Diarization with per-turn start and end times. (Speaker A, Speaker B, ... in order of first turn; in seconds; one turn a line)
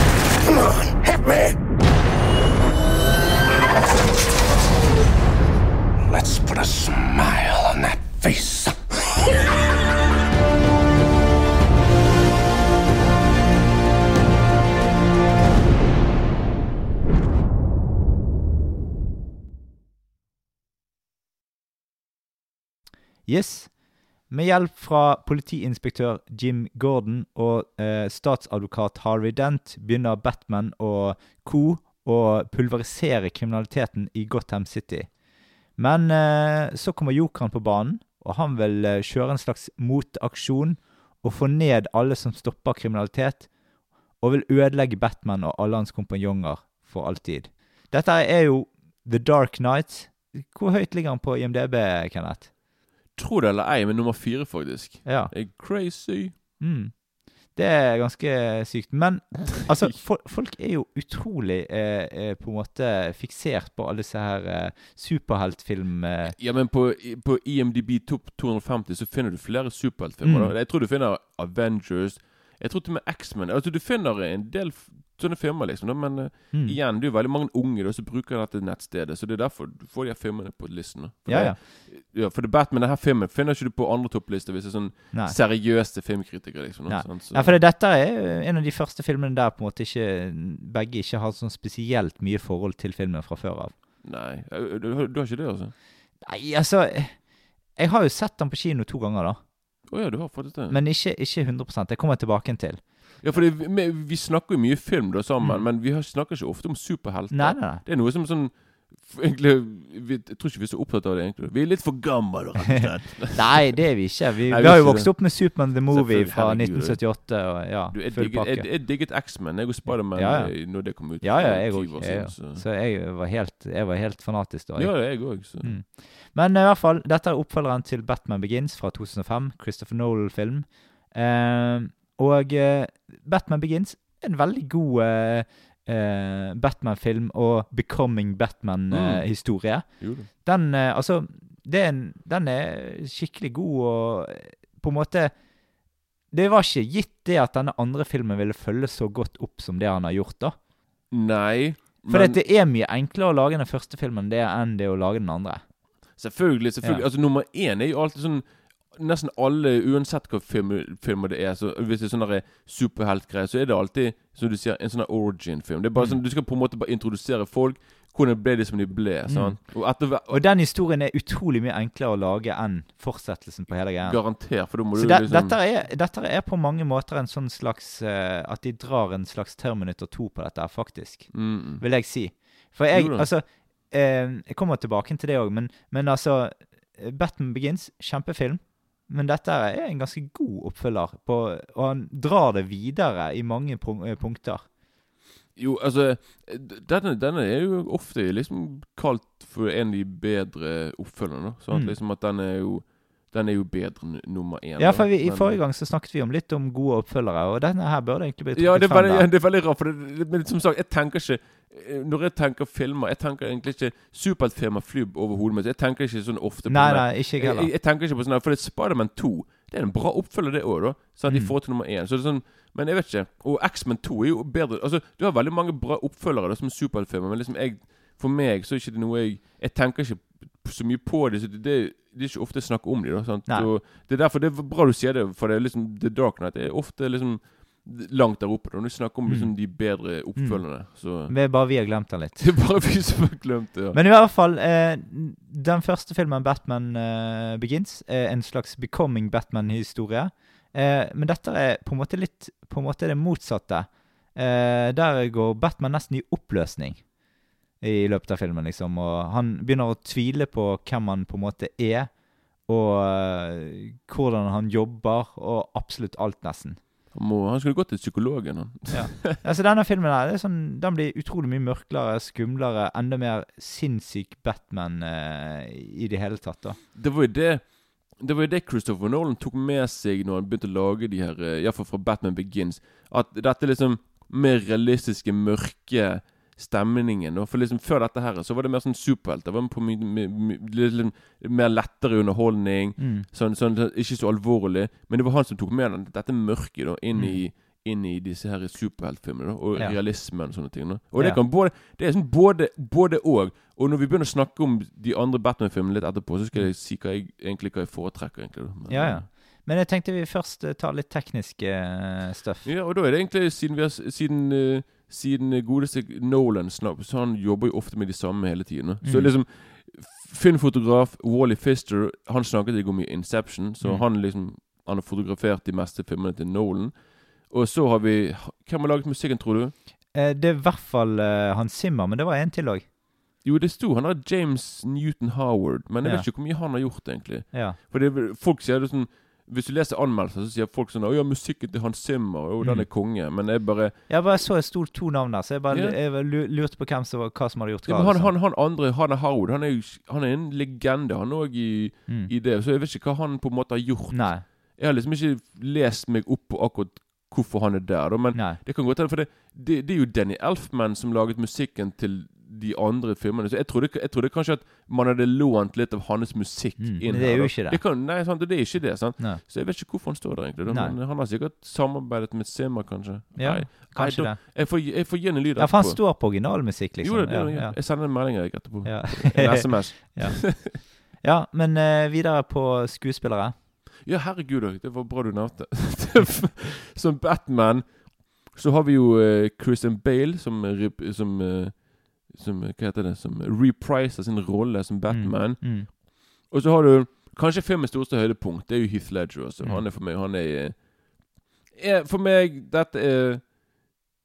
Speaker A: 0.6-1.5
Speaker A: 6.1-8.9
Speaker B: 23.3-35.1
Speaker B: 35.8-43.5
Speaker B: 44.2-52.5
Speaker C: 53.2-56.3
Speaker B: 55.0-55.3
Speaker B: 56.6-66.3
Speaker C: 66.2-87.6
Speaker B: 70.2-70.5
Speaker B: 76.5-76.8
Speaker B: 81.3-81.6
Speaker B: 86.9-93.7
Speaker C: 94.0-95.7
Speaker B: 96.2-99.4
Speaker C: 99.9-100.8
Speaker B: 100.7-103.4
Speaker C: 103.2-113.8
Speaker B: 107.3-107.8
Speaker B: 113.3-118.7
Speaker C: 114.5-117.2
Speaker C: 117.9-122.6
Speaker B: 119.9-145.4
Speaker C: 124.8-125.8
Speaker C: 138.9-140.3
Speaker B: 146.3-150.6
Speaker C: 151.1-152.4
Speaker B: 152.1-155.6
Speaker C: 156.2-170.4
Speaker B: 169.3-169.6
Speaker B: 170.3-194.7
Speaker C: 174.0-175.6
Speaker C: 181.3-181.9
Speaker C: 182.9-183.3
Speaker C: 195.6-205.6
Speaker B: 201.7-202.0
Speaker B: 204.8-209.3
Speaker C: 208.6-241.4
Speaker B: 216.7-217.7
Speaker B: 221.3-221.5
Speaker B: 239.3-242.5
Speaker C: 242.4-244.0
Speaker B: 243.9-257.1
Speaker B: 257.8-266.8
Speaker C: 267.1-269.4
Speaker B: 268.9-276.8
Speaker C: 276.9-309.3
Speaker B: 293.0-293.3
Speaker B: 297.1-297.4
Speaker B: 301.2-301.4
Speaker B: 308.9-312.7
Speaker C: 312.6-329.7
Speaker B: 319.0-319.3
Speaker B: 330.1-332.9
Speaker C: 333.4-344.0
Speaker B: 336.0-336.3
Speaker B: 337.5-337.8
Speaker B: 342.6-342.9
Speaker B: 344.1-348.3
Speaker C: 345.7-346.0
Speaker C: 347.9-376.2
Speaker B: 354.1-354.4
Speaker B: 358.3-358.6
Speaker B: 366.8-367.8
Speaker B: 370.7-371.0
Speaker B: 373.4-383.6
Speaker C: 377.0-380.8
Speaker C: 384.0-400.9
Speaker B: 395.1-395.9
Speaker C: 401.7-403.5